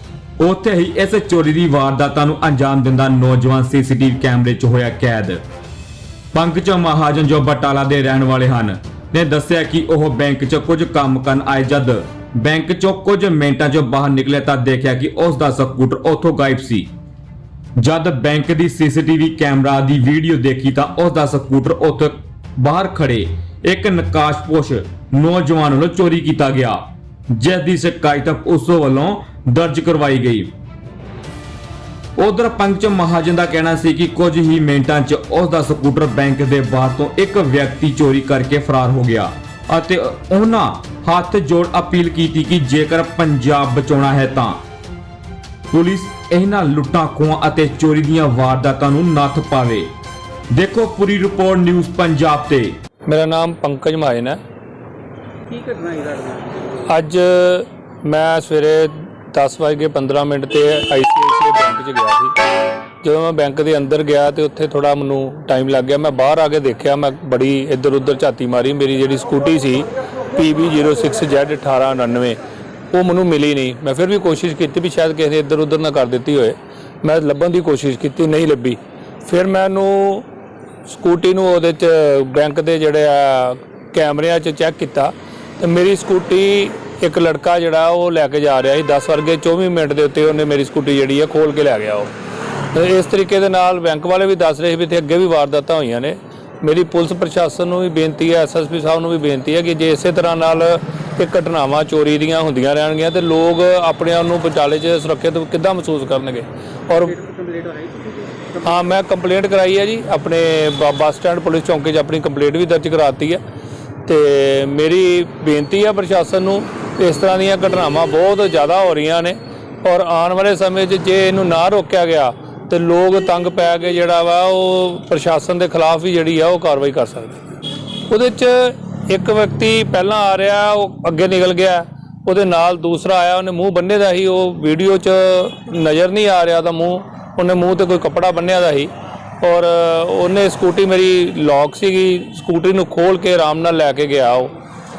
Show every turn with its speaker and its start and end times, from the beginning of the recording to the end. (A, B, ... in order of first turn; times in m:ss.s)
0:00.4-0:05.4 A
0:06.3-0:16.9 A
0:17.8-0:30.5 A
0:32.2-0:44.6 A
0:45.7-0:49.9 A
0:50.5-0:52.8 A
0:53.1-0:54.4 B
0:55.5-0:57.0 C
0:56.8-1:02.4 B
1:03.0-1:12.4 B
1:12.9-1:20.3 B
1:20.9-1:47.2 B
1:47.0-1:48.9 C
1:48.6-1:53.4 B
1:54.1-2:07.4 B
2:08.1-2:24.5 B